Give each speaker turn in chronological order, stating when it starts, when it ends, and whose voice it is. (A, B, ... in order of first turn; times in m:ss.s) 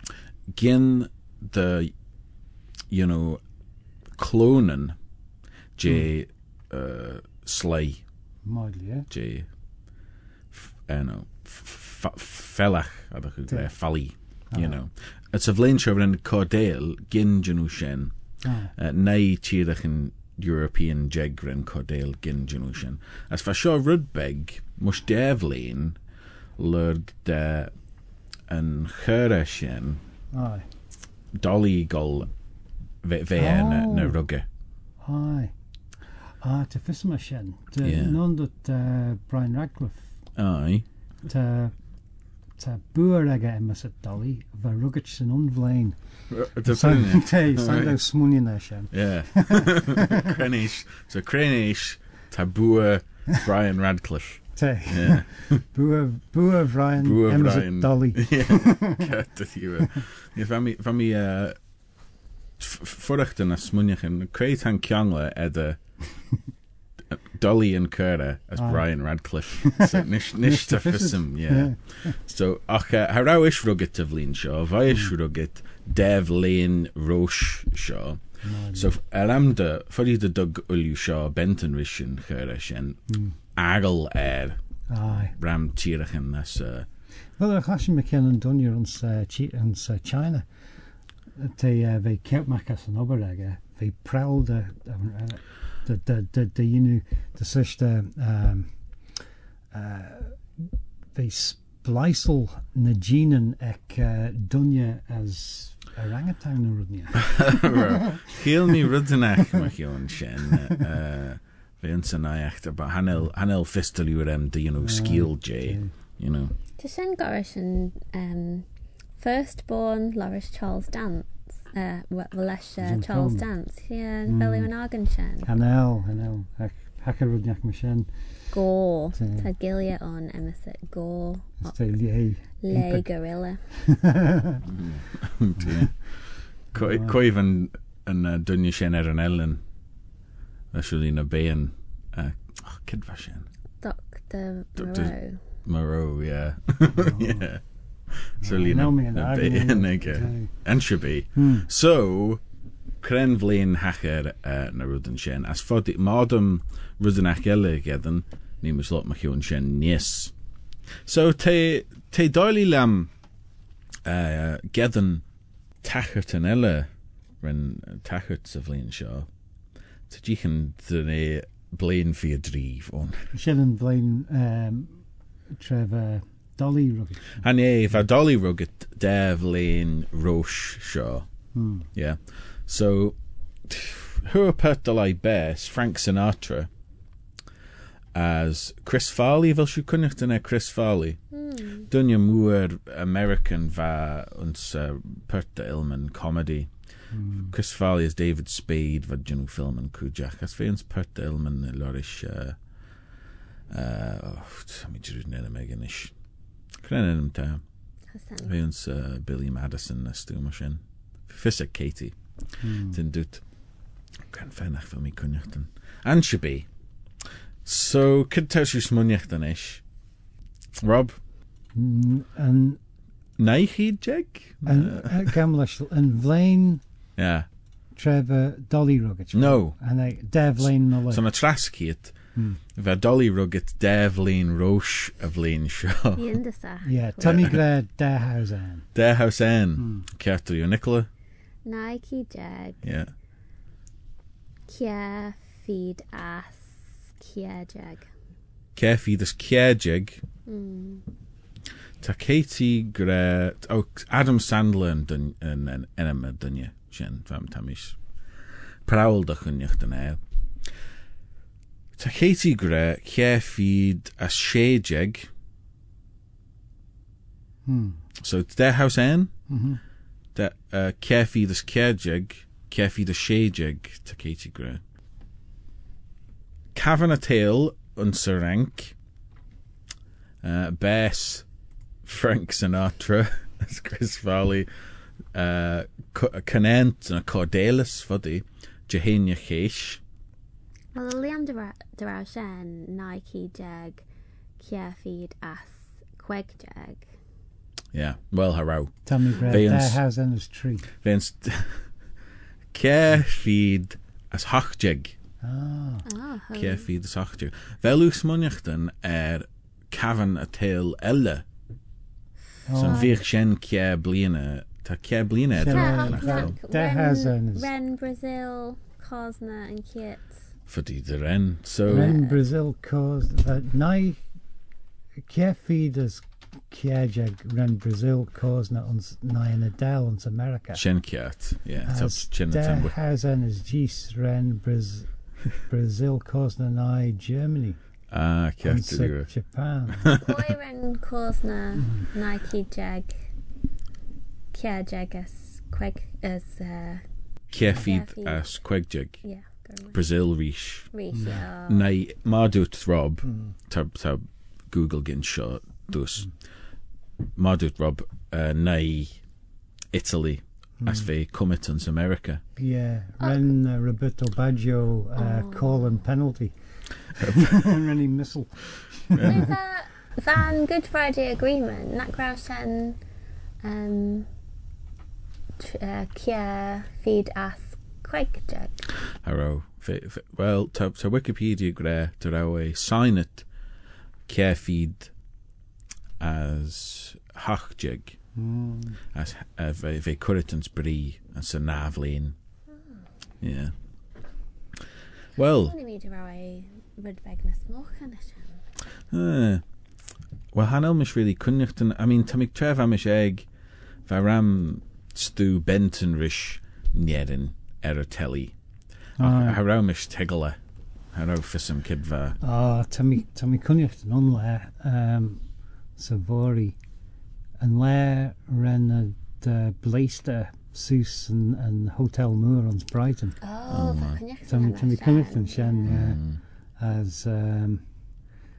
0:00.5-0:01.9 A
0:02.9-0:03.4 A
0:04.2-0:05.0 A
0:05.8-0:08.0 A
0:08.4-0:09.1 B
0:09.1-0:09.5 A
0:10.5-0:18.1 A
0:14.5-0:14.8 B
0:18.4-0:18.7 B
0:18.8-0:26.0 A
0:26.6-0:27.7 A
0:28.5-0:30.0 A
0:30.3-0:30.6 B
0:31.3-0:32.3 A
0:33.0-0:34.4 A
0:33.4-0:34.2 B
0:35.0-0:35.5 B
0:36.4-0:40.1 B
0:37.8-0:38.2 A
0:40.4-0:40.8 A
0:41.2-0:41.7 B
0:42.6-0:46.0 B
0:46.3-0:48.0 A
0:46.6-0:50.3 B
0:48.9-0:55.6 A
0:54.6-0:59.1 B
0:57.0-1:01.6 A
1:02.6-1:05.8 A
1:07.1-1:18.2 A
1:08.6-1:08.8 B
1:09.6-1:12.1 B
1:18.4-1:18.9 B
1:18.7-1:23.0 A
1:23.1-1:23.4 B
1:23.5-1:26.9 A
1:24.9-1:25.4 B
1:27.4-1:30.5 B
1:31.4-1:38.7 B
1:39.7-1:40.6 B
1:41.1-1:48.0 B
1:47.3-1:56.5 A
1:54.8-1:55.9 B
1:56.8-1:58.6 C
1:59.2-2:05.5 C
2:02.8-2:03.4 B
2:04.2-2:04.7 B
2:05.4-2:08.1 B
2:08.5-2:11.7 C
2:09.2-2:09.5 B
2:11.6-2:13.0 B
2:12.6-2:13.6 C
2:13.7-2:14.6 B
2:14.6-2:19.6 A
2:16.8-2:17.1 B
2:20.7-2:23.5 A
2:23.8-2:25.4 C
2:24.8-2:32.4 A
2:26.9-2:27.5 B
2:28.4-2:30.5 B
2:31.4-2:31.7 B
2:33.0-2:40.3 A
2:41.0-2:43.1 A
2:44.0-2:45.2 A
2:45.8-2:46.9 A
2:47.4-2:49.3 A
2:50.1-2:53.3 A
2:53.3-2:55.0 B
2:55.5-2:57.4 B
2:57.4-3:01.3 A
3:01.5-3:01.9 B
3:01.9-3:06.7 A
3:08.1-3:11.2 A
3:11.3-3:11.9 C
3:11.8-3:16.7 A
3:17.1-3:17.5 B
3:17.4-3:22.6 A
3:23.7-3:26.1 A
3:26.8-3:27.6 A
3:28.1-3:28.5 C
3:28.4-3:32.1 A
3:32.6-3:33.0 B
3:32.8-3:33.4 A
3:34.2-3:36.7 A
3:37.6-3:39.8 A
3:40.8-3:41.2 A
3:41.7-3:42.8 B
3:43.4-3:45.4 A
3:44.6-3:46.8 B
3:47.2-3:47.5 A
3:47.9-3:51.2 B
3:49.3-3:49.8 A
3:50.6-3:52.1 A
3:52.7-3:56.4 A
3:56.1-3:57.5 C
3:56.8-3:58.9 B
3:57.2-3:57.6 A
3:58.9-4:01.1 A
3:59.8-4:00.0 B
4:01.6-4:02.8 C
4:02.8-4:03.1 A
4:04.7-4:08.1 C
4:08.7-4:10.2 A
4:10.5-4:11.0 C
4:12.0-4:18.0 A
4:18.8-4:20.2 A
4:22.0-4:25.3 A
4:27.6-4:28.0 B
4:28.2-4:29.3 A
4:29.5-4:29.8 B
4:30.3-4:34.8 A
4:36.7-4:38.9 A
4:40.4-4:41.4 A
4:42.0-4:44.7 A
4:45.3-4:50.0 A
4:50.9-4:54.0 C
4:54.6-4:57.1 C
4:57.9-5:00.0 A
4:59.0-5:00.9 B
5:01.0-5:01.9 A
5:02.7-5:05.1 A
5:05.4-5:06.0 B
5:06.0-5:06.9 C
5:06.5-5:11.4 A
5:12.7-5:13.2 B
5:12.7-5:16.5 A
5:12.8-5:13.1 C
5:15.5-5:17.7 B
5:15.7-5:20.4 C
5:20.7-5:22.2 A
5:21.8-5:22.4 C
5:21.8-5:24.2 B
5:25.3-5:30.8 B
5:30.7-5:32.9 A
5:31.8-5:37.8 B
5:38.1-5:39.3 A
5:38.6-5:40.1 B
5:39.9-5:40.3 A
5:40.2-5:43.3 C
5:41.8-5:42.1 B
5:44.5-5:47.0 C
5:47.5-5:49.2 A
5:47.6-5:48.6 C
5:49.2-5:50.0 C
5:49.9-5:50.9 A
5:50.9-5:51.9 C
5:51.7-5:56.3 A
5:53.2-5:53.5 B
5:57.4-5:59.2 A
5:59.9-6:02.4 A
6:00.8-6:01.1 B
6:02.6-6:06.5 B
6:05.1-6:05.9 C
6:07.1-6:09.5 B
6:07.2-6:07.6 A
6:09.1-6:09.5 A
6:09.2-6:13.0 C
6:13.6-6:14.3 C
6:15.6-6:18.9 C
6:19.2-6:23.4 A
6:24.3-6:25.1 A
6:26.2-6:28.2 A
6:28.4-6:29.0 B
6:29.1-6:32.3 A
6:33.4-6:33.7 A
6:35.4-6:35.7 A
6:35.5-6:38.6 C
6:39.1-6:39.6 A
6:40.5-6:43.5 A
6:44.0-6:48.5 A
6:49.2-6:50.6 A
6:49.2-6:49.6 B
6:51.1-6:52.4 A
6:52.4-6:55.4 B
6:56.0-6:56.8 B
6:57.6-7:03.4 B
7:03.4-7:05.9 C
7:03.7-7:04.2 A
7:04.4-7:06.2 B
7:05.9-7:06.4 A
7:06.8-7:07.8 B